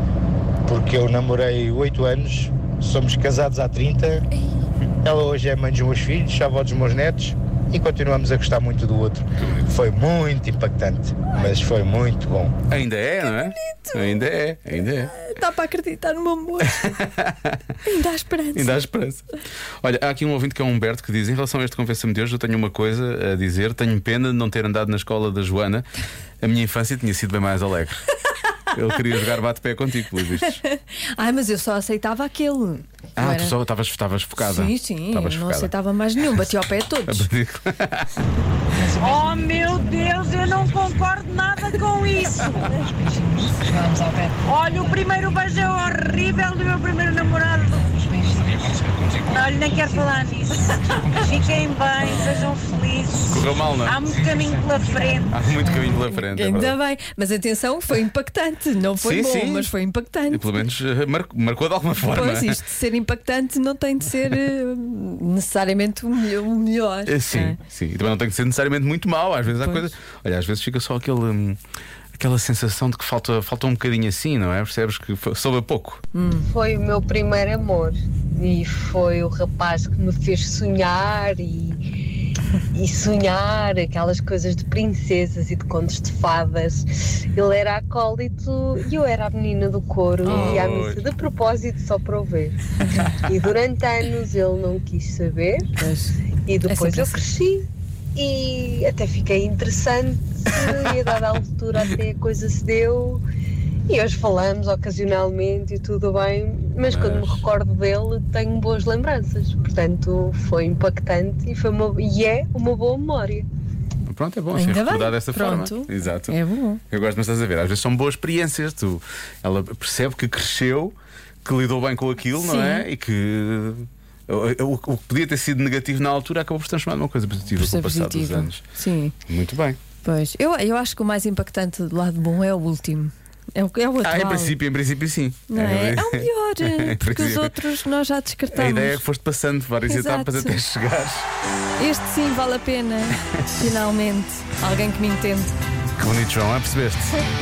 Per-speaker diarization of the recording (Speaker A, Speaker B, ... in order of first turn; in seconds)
Speaker A: 0.6-4.2, 5.0-12.5
Speaker B: 9.4-9.7, 12.7-15.1, 16.6-17.6, 18.5-19.2, 19.8-25.9, 26.4-28.0, 28.7-30.6, 33.1-35.7, 37.0-38.1, 53.3-54.1, 55.3-56.8, 59.0-59.7, 60.3-62.6, 67.0-71.6, 72.1-76.0, 90.2-91.0, 106.9-107.4, 114.0-116.3, 116.9-128.6, 129.3-129.8, 134.0-137.5, 138.5-141.2, 146.0-147.1
Speaker C: 13.6-14.2, 15.1-16.9, 17.8-18.8, 30.3-33.5, 34.4-37.3, 38.7-40.6, 42.7-45.1, 47.9-49.0, 49.6-50.1, 51.0-51.3, 52.0-52.9, 54.8-60.6, 62.0-67.6, 76.1-76.5, 90.3-90.6, 95.8-96.1, 96.7-97.2, 114.5-116.8, 122.4-122.8, 127.6-129.1, 130.0-134.5, 135.5-139.0, 139.8-140.6, 141.8-145.5
Speaker D: 39.0-42.8, 44.5-48.0, 49.3-55.3
Speaker E: 76.5-81.8, 82.7-92.6, 93.1-95.7, 96.5-97.6, 98.2-103.2, 103.9-113.5